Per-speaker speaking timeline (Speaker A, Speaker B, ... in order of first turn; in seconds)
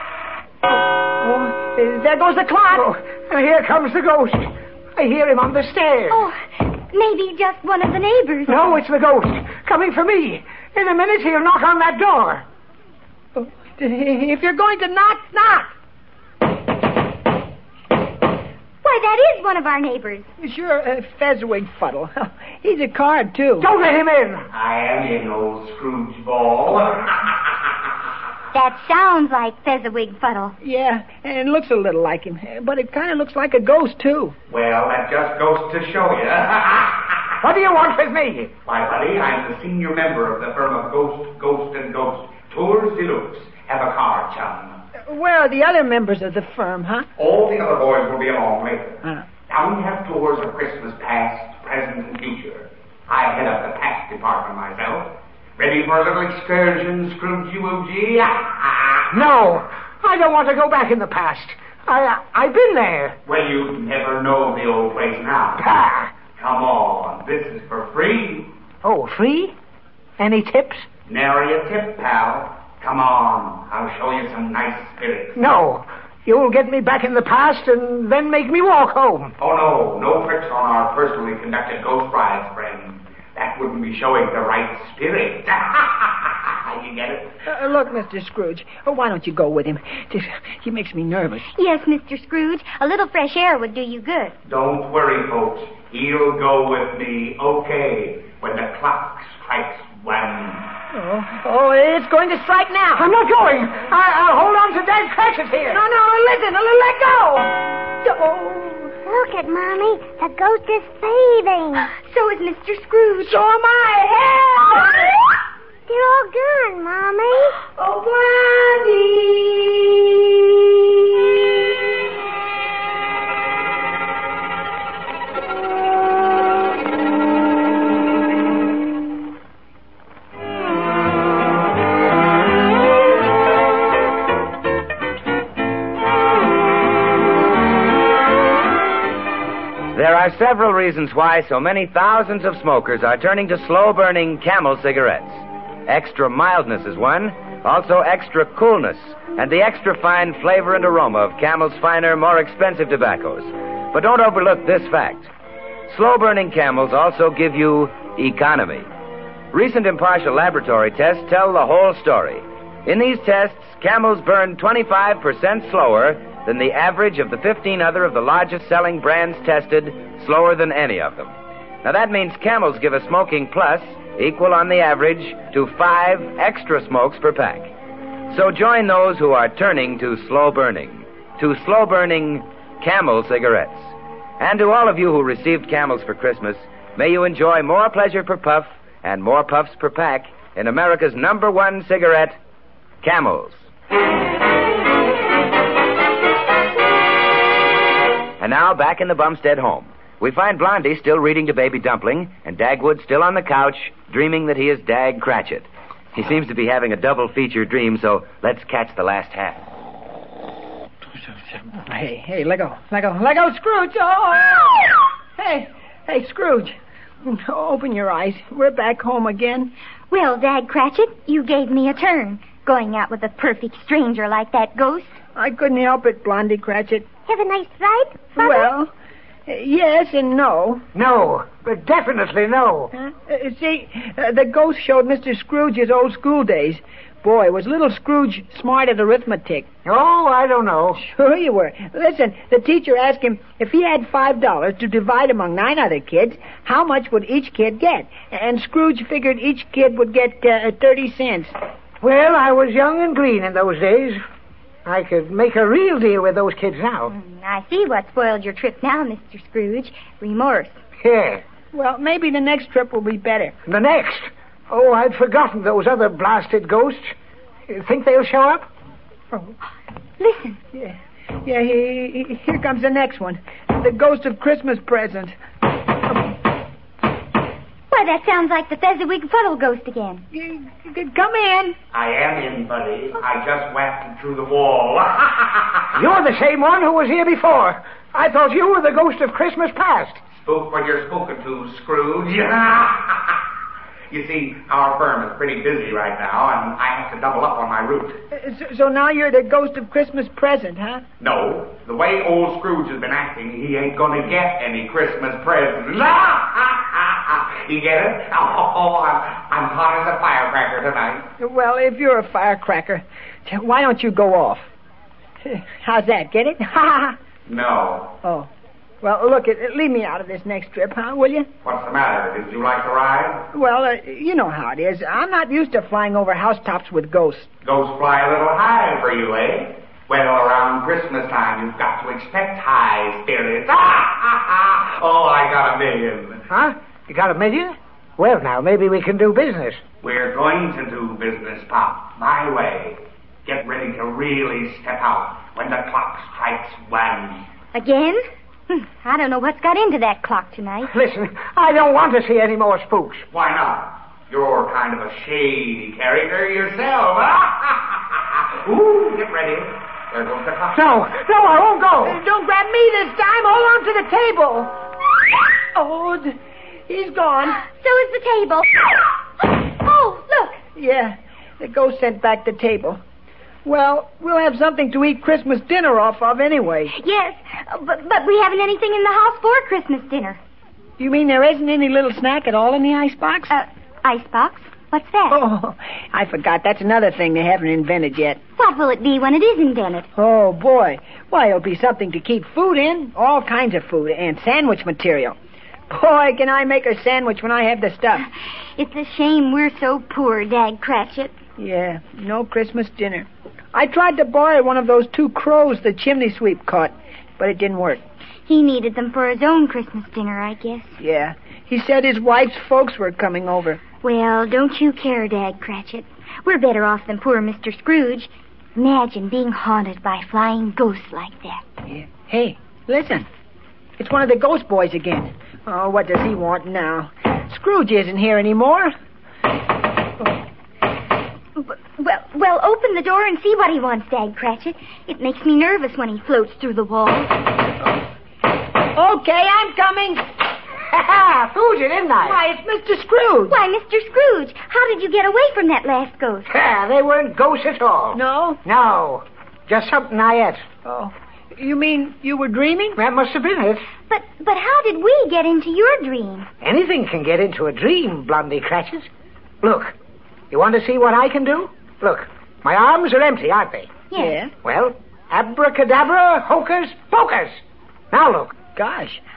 Speaker A: 0.7-2.9, 13.4-15.7, 20.4-23.7, 30.6-34.3, 45.1-47.1, 87.5-91.5, 100.9-103.1, 105.7-108.9, 113.2-115.1, 117.8-120.4, 211.3-219.7, 225.3-227.1, 228.3-228.9, 229.5-230.8, 232.9-239.7, 241.0-251.5, 261.7-263.6, 270.7-275.4, 280.3-281.8, 298.3-301.0, 311.4-314.7, 315.4-317.2, 318.2-318.5, 319.0-321.5, 323.5-327.5, 362.1-364.7, 365.8-366.4, 366.9-367.6, 370.8-373.0, 373.6-376.9, 381.0-383.5, 385.3-388.4, 390.1-395.4, 395.9-398.2, 401.6-408.0, 411.0-413.8, 421.9-423.3, 424.0-428.9, 438.9-440.3, 442.2-443.6, 448.1-448.6, 450.9-453.0, 464.1-464.5, 468.8-469.2
Speaker B: 2.7-6.2, 8.5-12.4, 23.6-24.5, 37.4-38.5, 59.1-63.2, 65.6-66.1, 68.8-69.5, 70.2-70.9, 75.4-79.3, 103.0-105.8, 230.9-232.9, 239.8-241.0, 252.0-254.2, 254.9-257.1, 261.0-261.4, 263.7-267.1, 267.7-268.7, 286.0-290.2, 336.5-339.8, 350.9-353.3, 360.7-362.2, 440.9-442.4, 446.5-450.6, 453.0-453.9, 456.6-459.1, 459.6-459.9, 460.5-464.1, 464.6-467.6, 468.1-468.6
Speaker C: 6.1-8.6, 18.8-20.3, 28.5-30.6, 91.5-94.3, 112.0-113.4, 220.1-225.2, 257.1-260.8, 270.2-270.6, 277.9-280.2, 347.7-350.9, 367.6-368.9, 369.7-370.6, 376.9-380.4, 383.5-385.4, 388.6-390.1, 398.8-401.4, 408.5-411.0, 414.0-421.6, 431.6-437.5, 443.5-446.5, 454.1-456.5, 464.1-464.4
Speaker D: 24.5-27.5, 34.5-37.3, 38.7-44.8, 47.2-59.1, 63.3-65.6, 66.3-68.5, 71.1-75.4, 79.4-87.3, 94.5-100.7, 281.9-286.0, 290.3-293.4, 294.1-298.2, 301.2-311.2, 317.5-318.1, 321.6-323.5, 327.6-336.5, 340.0-347.5, 353.3-360.9
Speaker E: 109.1-111.9, 115.9-117.6, 227.3-228.7
Speaker F: 139.9-155.3, 155.9-158.9, 159.5-171.3, 171.8-177.7, 178.3-192.4, 193.0-193.7, 198.4-209.6